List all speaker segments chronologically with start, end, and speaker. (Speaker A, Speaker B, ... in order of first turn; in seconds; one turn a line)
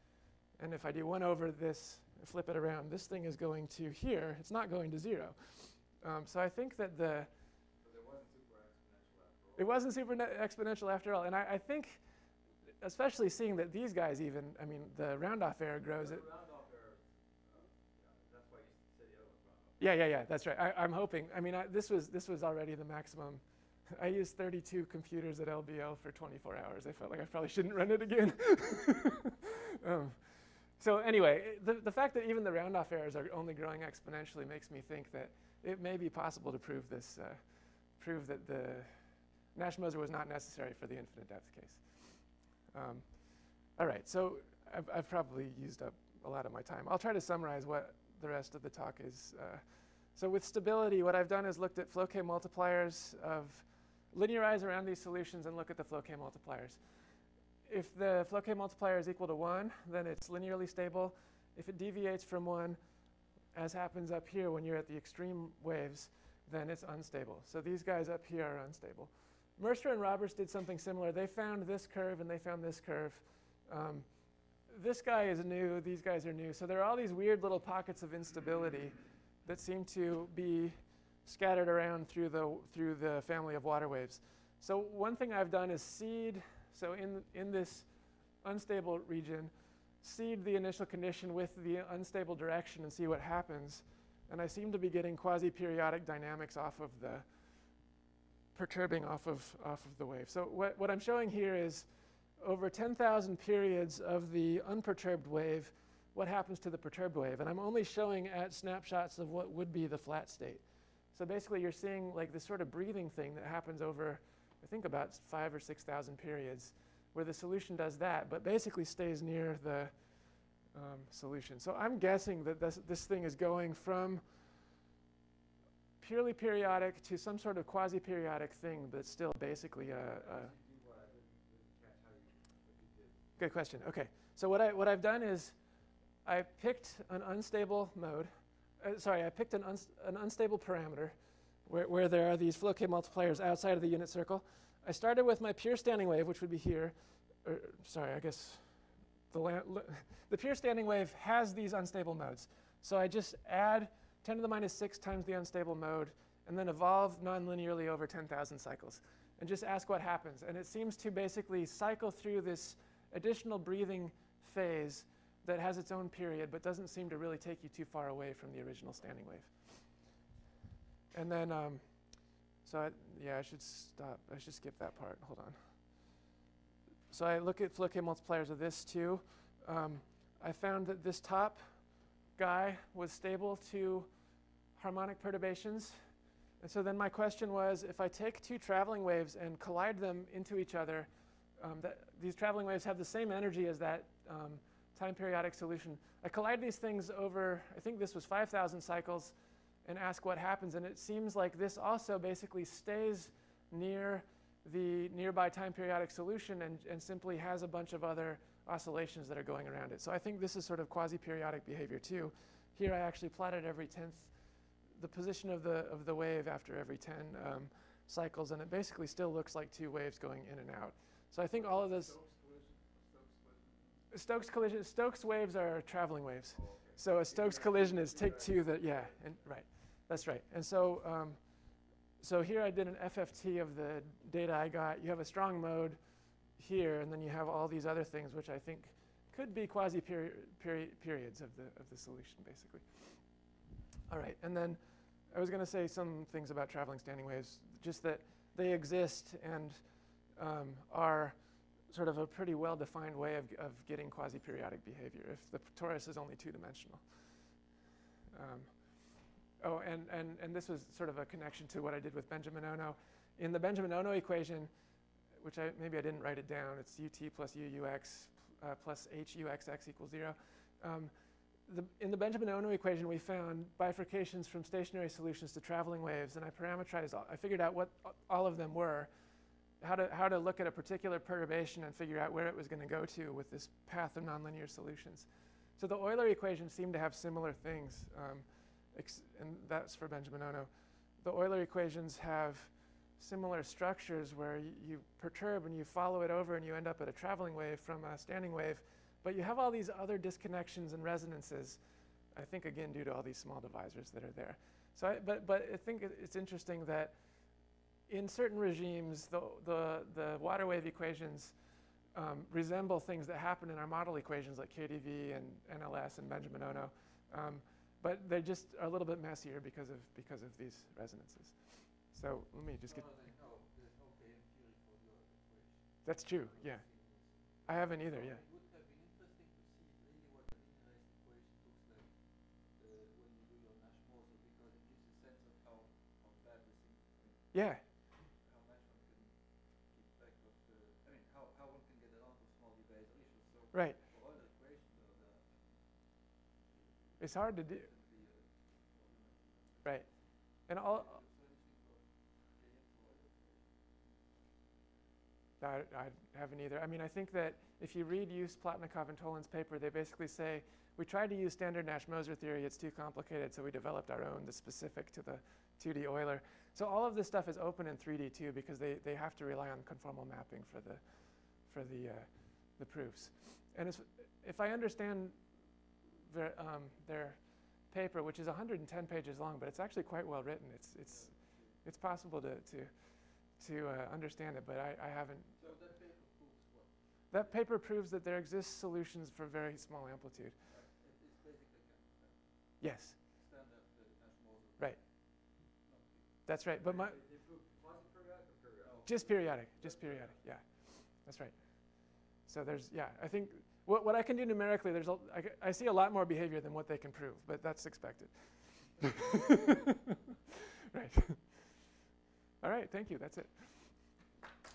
Speaker A: 0.6-7.3
Speaker B: 7.8-9.8
Speaker A: 9.6-12.0
Speaker A: 12.8-16.2
Speaker B: 15.9-19.9
Speaker A: 19.8-37.4
Speaker A: 38.0-38.9
Speaker A: 39.5-49.6
Speaker A: 50.1-56.8
Speaker A: 57.6-62.8
Speaker A: 63.5-74.0
Speaker A: 74.7-87.8
Speaker A: 88.4-89.5
Speaker A: 90.0-97.3
Speaker A: 98.5-101.9
Speaker A: 102.4-110.6
Speaker A: 111.1-119.9
Speaker A: 120.7-124.2
Speaker A: 126.0-130.5
Speaker B: 130.0-133.2
Speaker A: 133.4-135.6
Speaker A: 136.2-141.1
Speaker A: 141.7-148.6
Speaker A: 149.3-169.6
Speaker A: 171.1-171.8
Speaker A: 172.6-175.6
Speaker A: 177.1-181.6
Speaker A: 182.4-184.1
Speaker A: 184.8-186.0
Speaker A: 186.6-214.3
Speaker A: 214.9-222.1
Speaker A: 224.1-231.4
Speaker B: 226.5-229.2
Speaker A: 232.2-236.0
Speaker A: 236.6-243.2
Speaker A: 244.1-249.8
Speaker A: 250.3-251.3
Speaker A: 251.9-257.0
Speaker A: 258.3-258.7
Speaker A: 259.6-264.7
Speaker A: 265.4-271.1
Speaker A: 271.6-279.1
Speaker A: 279.8-301.8
Speaker A: 302.3-307.1
Speaker A: 308.1-311.5
Speaker A: 312.1-323.0
Speaker C: 322.8-354.2
Speaker A: 326.0-327.1
Speaker A: 327.6-328.4
Speaker A: 337.5-337.8
Speaker A: 343.7-344.0
Speaker A: 347.2-347.9
Speaker A: 349.8-351.2
Speaker A: 355.6-371.0
Speaker A: 371.6-375.4
Speaker A: 376.2-381.3
Speaker C: 381.0-381.9
Speaker A: 381.8-382.9
Speaker A: 383.6-385.5
Speaker C: 385.6-387.6
Speaker A: 387.3-390.6
Speaker C: 390.6-396.5
Speaker A: 392.8-393.2
Speaker A: 396.4-397.1
Speaker B: 396.8-399.1
Speaker C: 398.8-400.4
Speaker A: 399.1-410.0
Speaker A: 410.9-411.9
Speaker A: 412.6-413.9